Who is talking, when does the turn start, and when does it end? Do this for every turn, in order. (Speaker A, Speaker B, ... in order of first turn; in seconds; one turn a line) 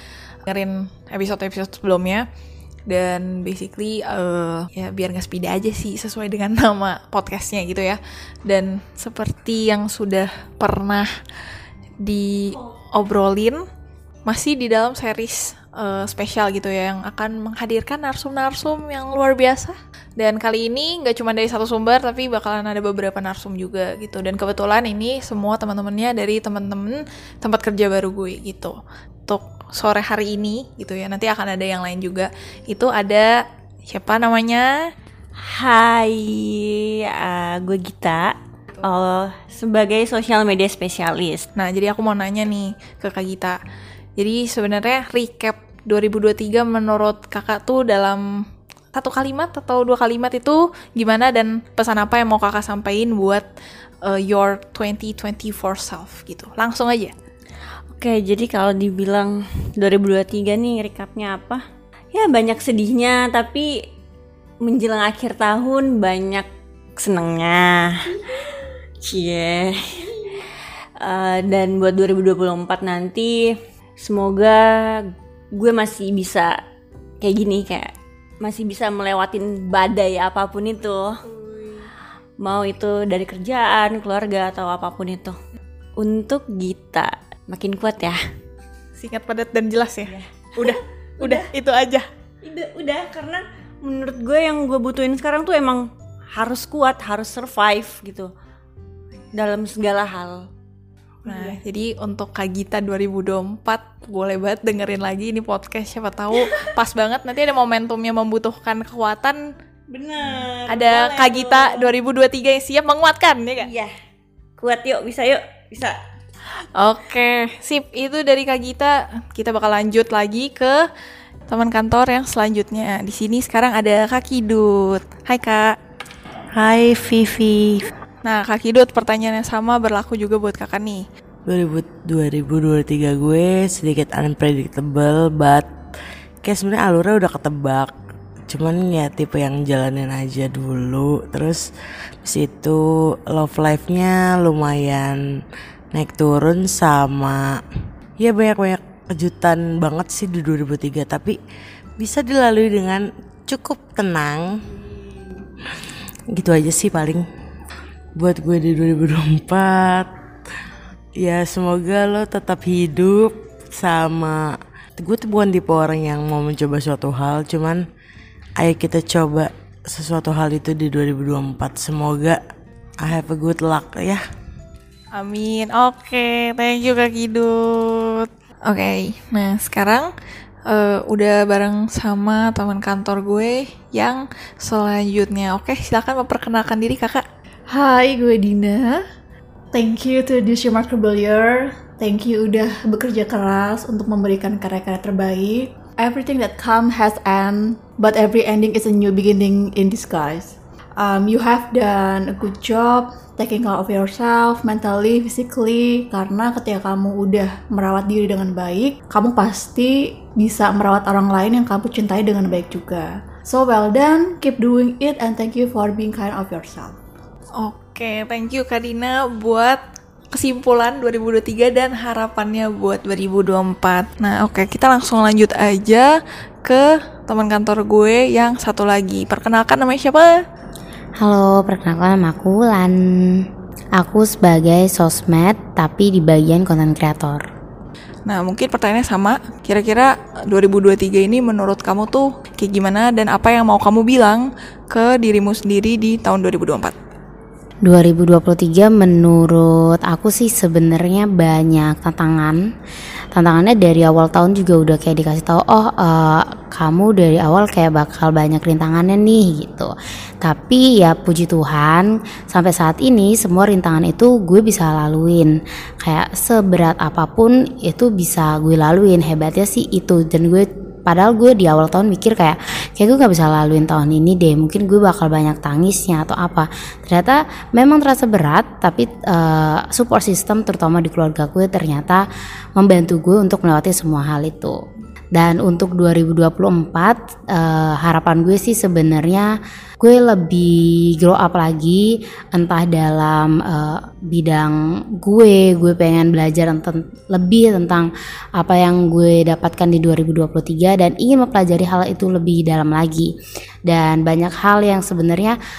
Speaker A: 0.5-2.2
Speaker A: 2.9-11.1
Speaker A: 12.0-13.6
Speaker A: 14.2-28.7
Speaker A: 29.3-33.3
Speaker A: 33.9-34.7
Speaker B: 35.5-41.5
Speaker A: 41.5-43.6
Speaker A: 44.2-48.2
Speaker A: 48.9-53.4
Speaker A: 54.0-57.1
Speaker B: 58.0-63.7
Speaker B: 64.6-68.1
Speaker B: 69.0-70.1
Speaker B: 71.0-76.5
Speaker B: 77.2-81.8
Speaker B: 82.4-85.4
Speaker B: 86.0-88.2
Speaker A: 89.0-92.1
Speaker B: 90.1-91.5
Speaker B: 92.4-98.3
Speaker B: 99.3-100.5
Speaker B: 101.2-101.5
Speaker A: 101.2-109.4
Speaker B: 109.9-111.9
Speaker A: 110.7-113.7
Speaker B: 113.6-113.9
Speaker B: 114.6-116.0
Speaker A: 116.7-120.8
Speaker A: 121.5-125.7
Speaker C: 126.5-127.8
Speaker A: 128.2-131.0
Speaker C: 131.4-135.7
Speaker C: 136.4-137.9
Speaker C: 138.5-141.6
Speaker C: 142.2-145.2
Speaker C: 145.9-147.6
Speaker C: 148.2-151.3
Speaker C: 152.0-154.5
Speaker C: 156.3-157.2
Speaker C: 158.1-160.1
Speaker C: 161.2-167.8
Speaker C: 168.6-172.4
Speaker C: 173.0-174.2
Speaker A: 175.1-180.1
Speaker A: 180.7-187.2
Speaker D: 187.7-189.0
Speaker D: 189.7-217.0
Speaker A: 217.6-219.8
Speaker A: 220.3-226.1
Speaker A: 226.6-230.3
Speaker E: 231.2-233.4
Speaker E: 234.0-237.4
Speaker A: 238.2-246.9
Speaker E: 247.8-252.6
Speaker E: 253.3-259.9
Speaker E: 260.4-282.2
Speaker E: 282.8-284.8
Speaker E: 285.4-289.5
Speaker E: 290.0-303.3
Speaker E: 303.9-305.6